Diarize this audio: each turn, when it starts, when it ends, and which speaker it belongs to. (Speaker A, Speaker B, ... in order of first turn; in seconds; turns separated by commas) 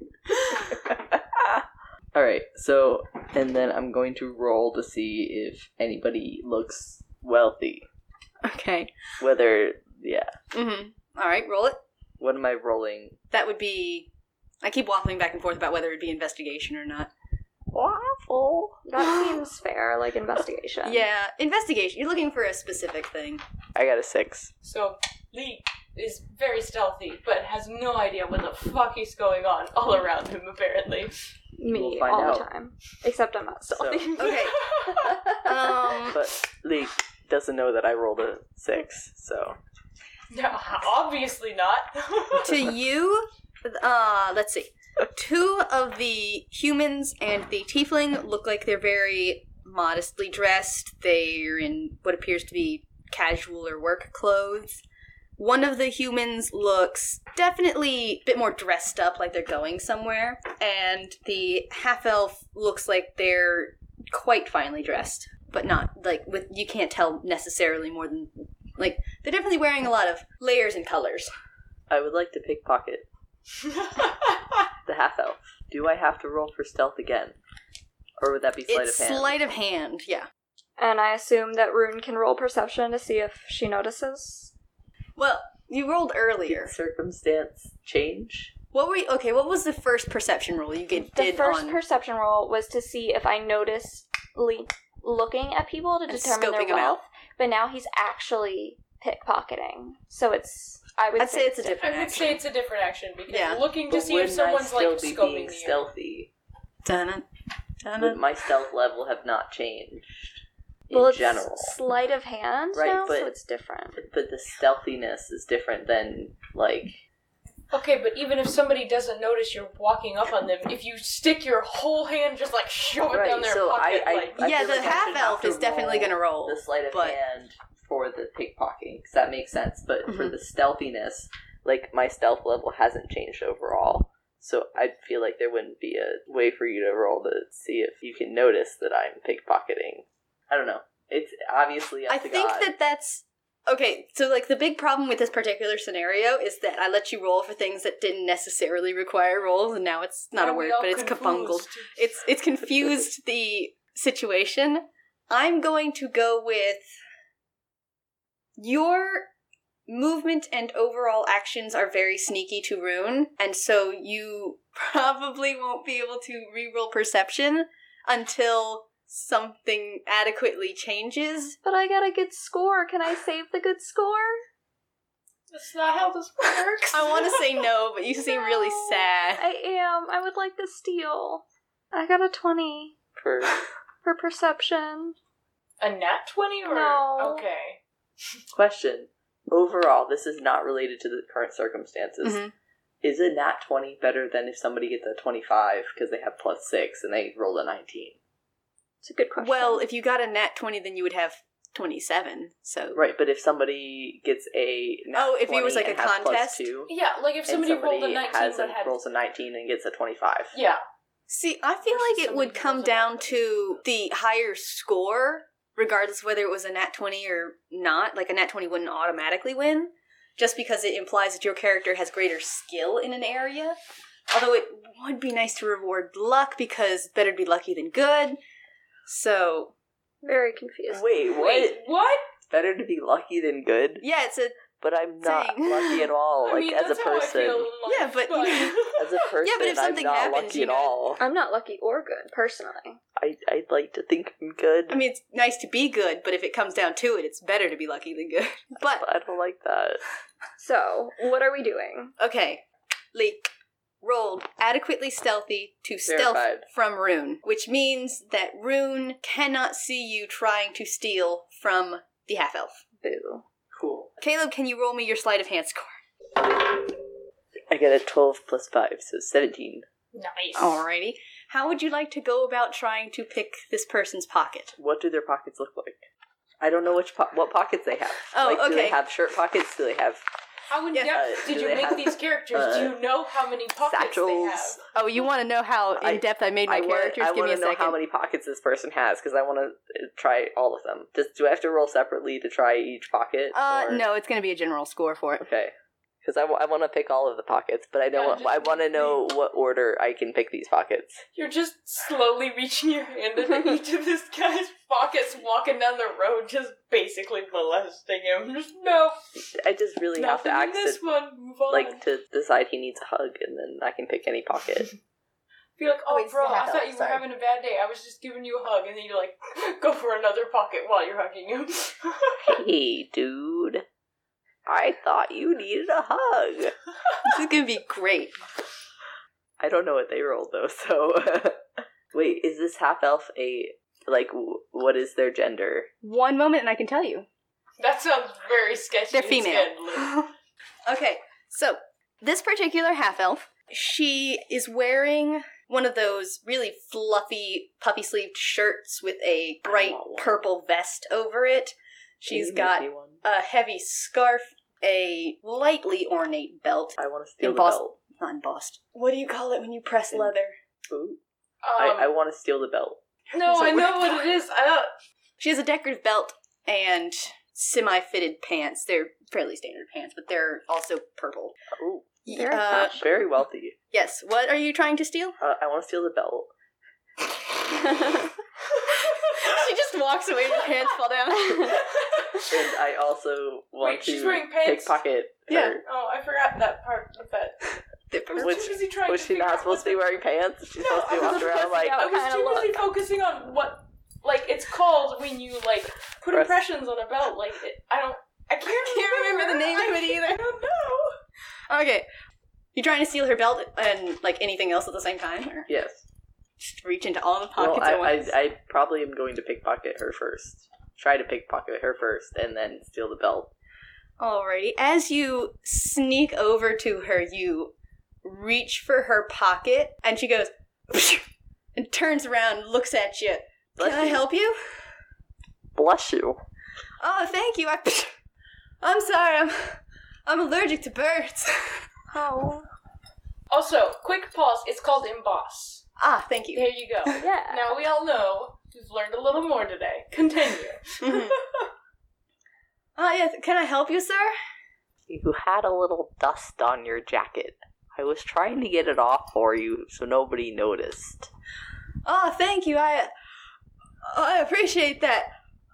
Speaker A: 0.3-7.8, Speaker B: 8.4-8.9, Speaker A: 9.2-10.3, Speaker B: 10.5-11.8, Speaker A: 12.2-13.2, Speaker B: 13.3-14.1, Speaker B: 14.6-17.1, Speaker A: 17.7-18.8, Speaker C: 18.9-21.1, Speaker B: 19.0-19.4, Speaker B: 20.8-23.4, Speaker A: 23.7-24.5, Speaker D: 24.6-31.1, Speaker C: 31.6-35.5, Speaker A: 31.7-32.5, Speaker A: 33.7-34.1, Speaker B: 34.1-36.2, Speaker D: 34.3-35.1, Speaker A: 36.1-39.6, Speaker D: 40.3-42.7, Speaker B: 42.4-54.8, Speaker B: 55.4-71.3, Speaker A: 71.9-73.1, Speaker A: 74.8-77.4, Speaker A: 78.2-79.4, Speaker B: 78.7-80.3, Speaker C: 80.8-84.5, Speaker B: 85.2-86.7, Speaker A: 86.5-88.5, Speaker B: 88.7-91.8, Speaker C: 91.0-101.8, Speaker B: 96.1-97.0, Speaker B: 101.2-102.4, Speaker D: 101.8-105.8, Speaker B: 103.3-103.6, Speaker A: 103.9-106.3, Speaker B: 106.8-107.2, Speaker B: 107.8-108.2, Speaker A: 108.0-110.1, Speaker A: 110.9-111.7, Speaker C: 110.9-114.0, Speaker A: 112.7-113.3, Speaker A: 114.0-117.0, Speaker D: 117.7-124.4, Speaker A: 123.1-142.7, Speaker B: 124.4-127.2, Speaker B: 130.1-130.3, Speaker B: 142.1-156.8, Speaker D: 150.4-152.1, Speaker B: 158.6-159.3, Speaker B: 159.9-171.6, Speaker C: 171.6-174.4, Speaker D: 175.5-177.5, Speaker B: 176.9-179.4, Speaker C: 178.2-182.9, Speaker A: 183.2-183.6, Speaker C: 184.0-185.2, Speaker D: 185.8-187.8, Speaker C: 186.7-187.4, Speaker A: 188.5-192.4, Speaker B: 192.2-192.5, Speaker A: 193.0-198.2, Speaker C: 199.0-199.8, Speaker B: 199.4-203.0, Speaker A: 202.9-206.9, Speaker B: 205.1-206.7, Speaker D: 206.9-209.0, Speaker A: 207.5-210.6, Speaker D: 210.5-210.8, Speaker B: 211.3-223.8, Speaker D: 211.8-213.4, Speaker B: 224.3-228.4, Speaker B: 229.1-229.7, Speaker C: 230.2-231.1, Speaker A: 230.9-231.8, Speaker D: 231.3-232.2, Speaker A: 232.5-234.0, Speaker B: 234.0-234.6, Speaker A: 234.8-237.7, Speaker B: 235.2-236.1, Speaker D: 236.4-239.2, Speaker B: 237.8-238.8, Speaker A: 238.9-241.2, Speaker B: 239.4-240.9, Speaker C: 241.2-243.0, Speaker A: 243.2-245.0, Speaker B: 244.9-249.1, Speaker A: 248.9-250.0, Speaker C: 250.6-252.1, Speaker B: 252.2-253.5, Speaker B: 254.0-262.8, Speaker A: 256.1-256.6, Speaker C: 263.0-263.4, Speaker A: 263.7-264.1, Speaker B: 264.2-265.9, Speaker A: 267.7-269.9, Speaker D: 270.1-270.8, Speaker B: 270.5-274.7, Speaker A: 274.8-276.0, Speaker A: 276.6-280.2, Speaker B: 278.3-279.0, Speaker D: 280.7-284.8, Speaker B: 280.9-281.2, Speaker A: 281.0-283.0, Speaker A: 283.8-284.8, Speaker B: 284.9-288.0, Speaker A: 286.0-294.0, Speaker B: 293.5-295.4, Speaker A: 295.4-301.2, Speaker D: 298.1-299.2, Speaker D: 301.3-309.2, Speaker A: 309.6-311.0, Speaker D: 310.1-312.0, Speaker A: 311.7-314.9, Speaker D: 315.8-322.6, Speaker B: 316.1-317.2, Speaker A: 322.4-323.8, Speaker A: 324.6-326.7, Speaker B: 327.2-328.3, Speaker A: 329.6-335.9, Speaker B: 336.0-337.3, Speaker D: 337.8-340.2, Speaker B: 339.1-340.3, Speaker B: 340.9-360.6, Speaker A: 349.6-350.5, Speaker A: 352.3-353.2, Speaker A: 357.0-358.0, Speaker A: 360.9-361.2, Speaker D: 361.6-362.1, Speaker A: 361.8-363.0, Speaker D: 363.3-364.9, Speaker B: 363.4-364.3, Speaker B: 365.4-371.6, Speaker A: 371.8-372.1, Speaker B: 372.2-373.0, Speaker C: 372.3-373.0, Speaker A: 372.8-373.8, Speaker B: 373.9-375.4, Speaker A: 375.4-376.5, Speaker D: 379.1-379.4, Speaker B: 379.2-381.9, Speaker D: 381.7-382.4, Speaker A: 382.4-385.8, Speaker D: 383.8-385.0, Speaker B: 385.5-385.8, Speaker D: 385.8-387.8, Speaker B: 388.1-388.7, Speaker D: 388.3-390.2, Speaker A: 388.4-392.0, Speaker D: 390.7-401.1, Speaker C: 391.3-392.8, Speaker A: 396.3-396.6, Speaker B: 398.6-400.4, Speaker B: 401.7-402.1, Speaker B: 402.7-405.7, Speaker A: 405.7-406.0, Speaker B: 406.6-408.3, Speaker A: 407.6-413.5, Speaker B: 414.2-424.6, Speaker A: 423.8-424.2, Speaker A: 425.7-426.4, Speaker B: 427.0-428.1, Speaker B: 428.8-431.8, Speaker C: 432.1-432.7, Speaker D: 433.5-435.8, Speaker B: 436.0-437.1, Speaker D: 436.5-441.7, Speaker C: 437.2-437.8, Speaker B: 441.0-441.4, Speaker B: 442.9-444.3, Speaker A: 445.1-451.3, Speaker B: 452.0-453.1, Speaker B: 454.0-455.3